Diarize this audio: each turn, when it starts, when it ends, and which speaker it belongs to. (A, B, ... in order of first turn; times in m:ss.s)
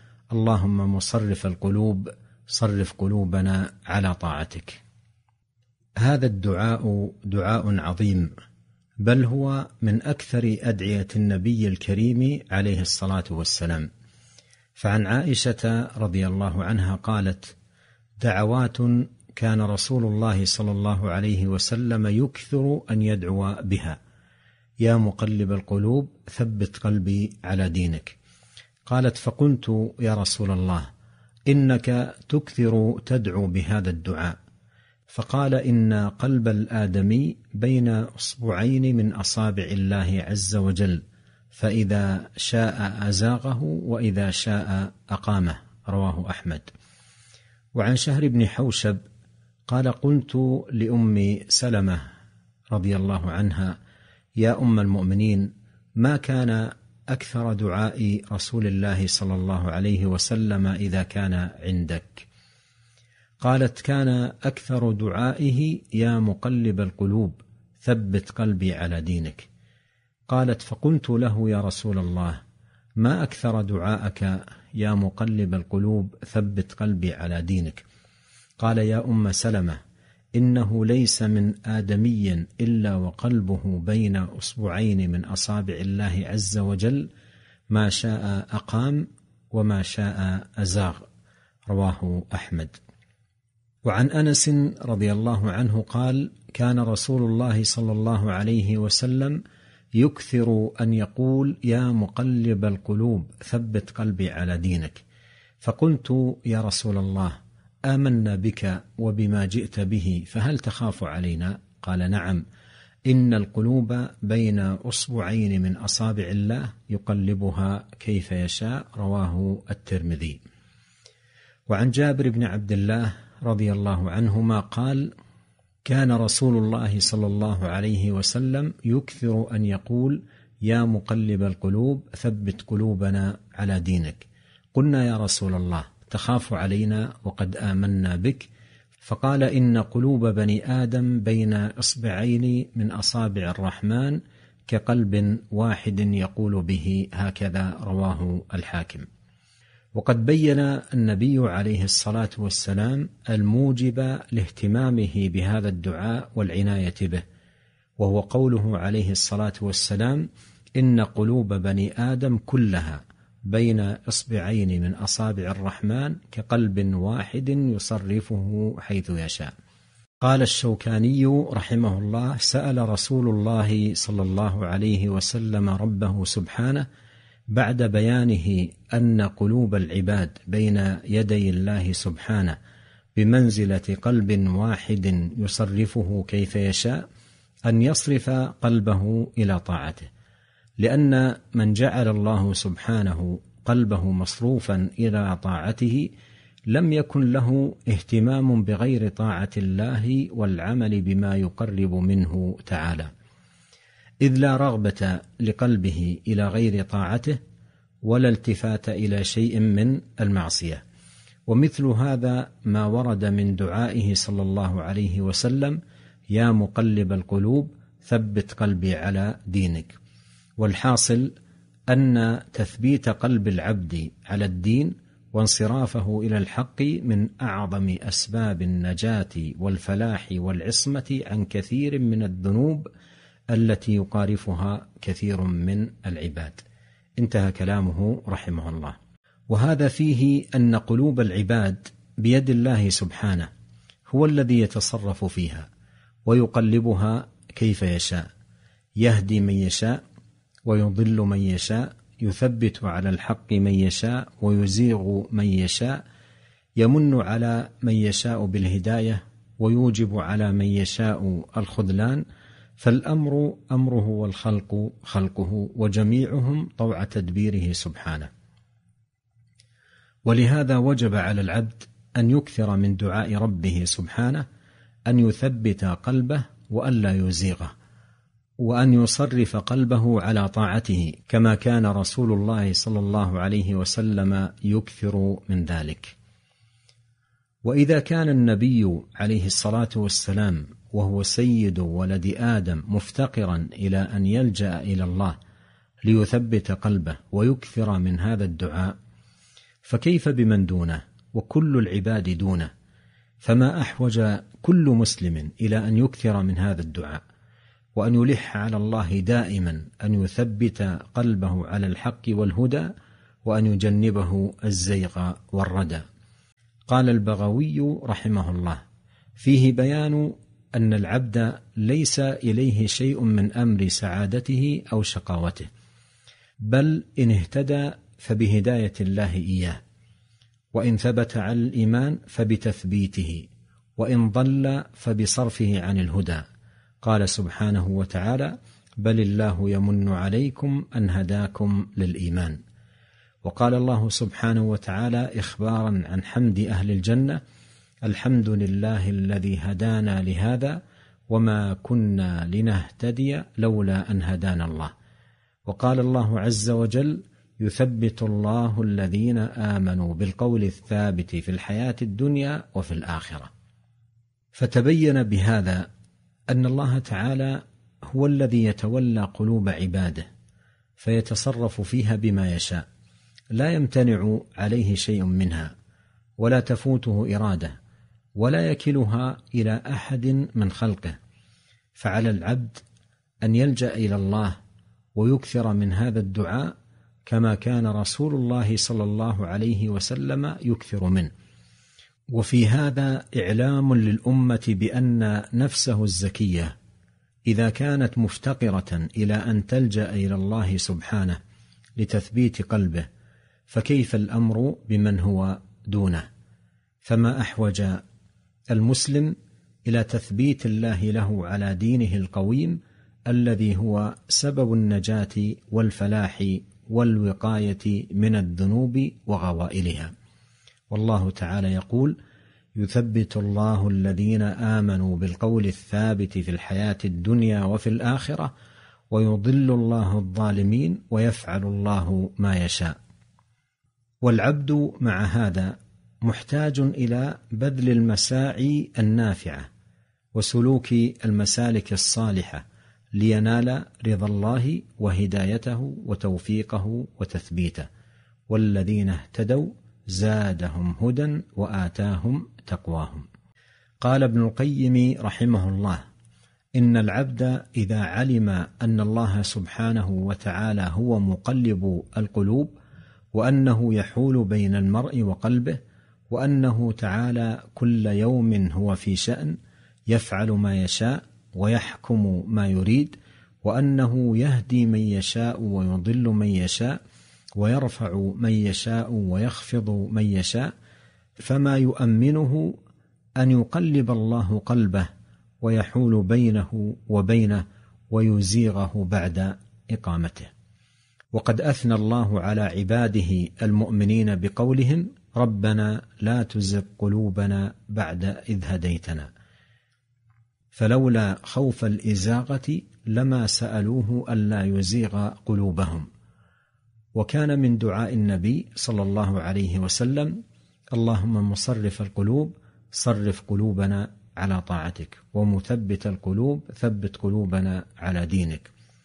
0:00.3-0:04.8 A
0:06.0-0:08.3 A
0:09.0-0:13.9 A
0:14.8-0:17.5 A
0:18.2-0:24.0 A
0:24.8-0:28.2 A
0:28.9-0:30.9 A
0:31.5-0:34.4 A
0:35.1-0:41.0 A
0:41.5-0:46.7 A
0:47.8-0:49.0 A
0:49.7-0:52.0 A
0:52.7-0:53.8 A
0:54.4-1:02.3 A
1:03.4-1:09.5 A
1:10.3-1:12.4 A
1:13.0-1:17.8 A
1:18.6-1:19.8 A
1:20.4-1:27.1 A
1:27.7-1:31.0 A
1:31.7-1:32.8 A
1:33.8-1:39.4 A
1:40.0-1:45.0 A
1:45.6-1:47.4 A
1:47.9-1:52.4 A
1:53.1-2:00.4 A
2:01.7-2:05.1 A
2:05.8-2:18.5 A
2:19.0-2:29.0 A
2:30.0-2:37.2 A
2:38.0-2:40.2 A
2:40.8-2:49.5 A
2:50.2-2:56.8 A
2:57.5-3:02.6 A
3:03.2-3:07.0 A
3:07.7-3:10.1 A
3:10.8-3:16.1 A
3:16.7-3:23.1 A
3:24.2-3:27.4 A
3:28.0-3:30.8 A
3:31.5-3:35.8 A
3:36.3-3:39.9 A
3:40.6-3:41.3 A
3:41.9-3:52.9 A
3:53.5-3:56.6 A
3:57.2-3:59.0 A
3:59.5-4:03.5 A
4:04.1-4:05.7 A
4:06.2-4:08.2 A
4:09.0-4:10.0 A
4:10.6-4:16.0 A
4:16.8-4:22.2 A
4:22.8-4:28.3 A
4:30.2-4:34.4 A
4:35.1-4:37.7 A
4:38.6-4:46.1 A
4:47.6-4:55.4 A
4:56.0-4:58.9 A
4:59.8-5:02.7 A
5:03.4-5:07.2 A
5:08.0-5:12.9 A
5:13.4-5:16.0 A
5:16.9-5:18.8 A
5:19.4-5:25.7 A
5:26.6-5:29.8 A
5:30.7-5:36.4 A
5:37.0-5:42.6 A
5:43.4-5:47.4 A
5:48.0-5:50.8 A
5:51.3-5:54.9 A
5:55.6-6:03.5 A
6:04.5-6:05.9 A
6:06.5-6:10.2 A
6:11.0-6:12.8 A
6:13.6-6:15.7 A
6:16.4-6:17.7 A
6:18.4-6:21.2 A
6:22.0-6:22.8 A
6:23.4-6:24.6 A
6:25.2-6:26.7 A
6:27.2-6:31.3 A
6:32.3-6:36.7 A
6:37.5-6:41.4 A
6:42.0-6:43.0 A
6:43.7-6:46.2 A
6:47.0-6:48.0 A
6:48.7-6:49.3 A
6:49.8-7:00.1 A
7:00.9-7:02.2 A
7:02.8-7:08.5 A
7:09.1-7:12.9 A
7:14.2-7:19.7 A
7:20.3-7:22.6 A
7:23.2-7:27.9 A
7:28.5-7:33.2 A
7:34.0-7:36.0 A
7:36.8-7:42.7 A
7:43.3-7:45.8 A
7:46.3-7:49.6 A
7:50.1-7:57.0 A
7:57.6-8:00.7 A
8:01.4-8:02.8 A
8:03.4-8:05.1 A
8:05.6-8:10.5 A
8:11.3-8:19.3 A
8:20.7-8:26.1 A
8:27.1-8:30.4 A
8:30.9-8:38.7 A